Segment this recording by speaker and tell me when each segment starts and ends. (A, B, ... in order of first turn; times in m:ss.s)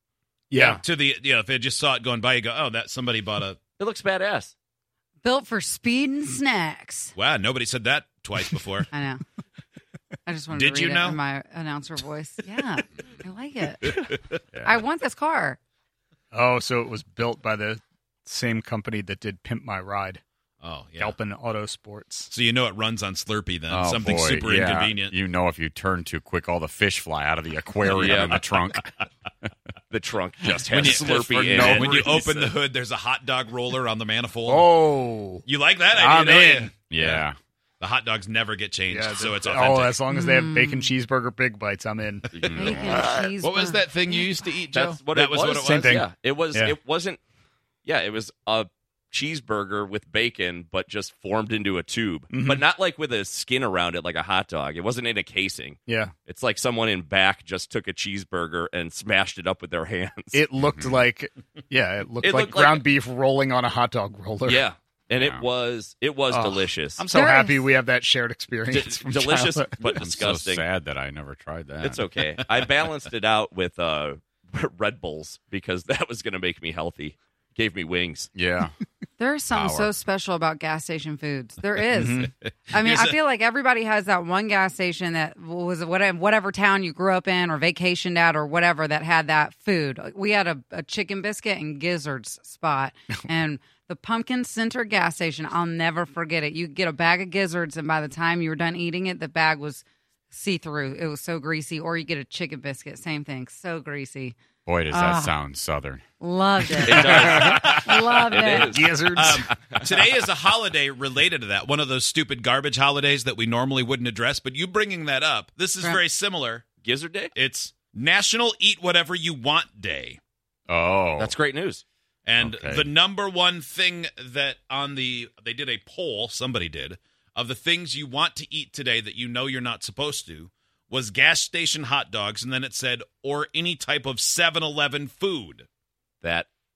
0:00.5-0:00.8 A
0:00.6-0:00.8 B
0:00.8-0:03.6 C
0:03.8-0:04.5 B
0:05.2-0:07.1 D
0:07.1-0:08.9 C
0:08.9-0:09.2 D
0:10.2-0:14.0 D
0:10.5-0:11.2 C
0:14.6-0:15.6 D
0:16.3-0:20.2 A
0:20.6-0:21.2 C
0:21.0-0:22.3 A
0:22.3-0:25.2 C
0:23.7-0:28.9 E
0:27.9-0:28.4 B
0:29.9-0:32.5 B
0:30.5-0:31.2 E
0:30.7-0:34.7 C
0:31.6-0:32.0 A
0:34.4-0:35.4 A
0:35.4-0:36.7 C
0:35.9-0:37.2 A
0:36.8-0:37.4 E
0:37.8-0:40.0 C
0:38.9-0:42.2 A
0:40.1-0:41.0 D
0:42.3-0:43.1 B
0:42.5-0:42.8 E
0:42.5-0:44.5 D
0:42.8-0:43.3 A
0:43.4-0:45.7 C
0:44.7-0:47.2 B
0:45.5-0:46.8 A
0:47.8-1:00.4 B
0:52.3-0:52.6 A
0:55.9-0:56.1 A
1:00.3-1:04.7 A
1:00.6-1:01.0 E
1:02.2-1:02.8 B
1:04.4-1:07.0 B
1:05.2-1:05.4 E
1:06.3-1:09.9 A
1:07.1-1:07.6 D
1:08.7-1:10.6 B
1:09.8-1:12.1 E
1:11.8-1:18.3 B
1:18.3-1:18.8 E
1:19.2-1:44.4 D
1:19.5-1:19.9 E
1:21.9-1:23.2 C
1:44.6-1:46.0 E
1:44.9-1:45.3 D
1:46.2-1:48.8 D
1:46.8-1:50.1 B
1:47.2-1:47.7 C
1:48.4-1:49.4 A
1:49.2-1:56.6 C
1:56.8-1:57.3 B
1:57.3-2:00.2 C
2:00.7-2:01.3 E
2:01.2-2:01.8 B
2:02.2-2:15.7 C
2:02.4-2:02.9 E
2:16.2-2:16.5 B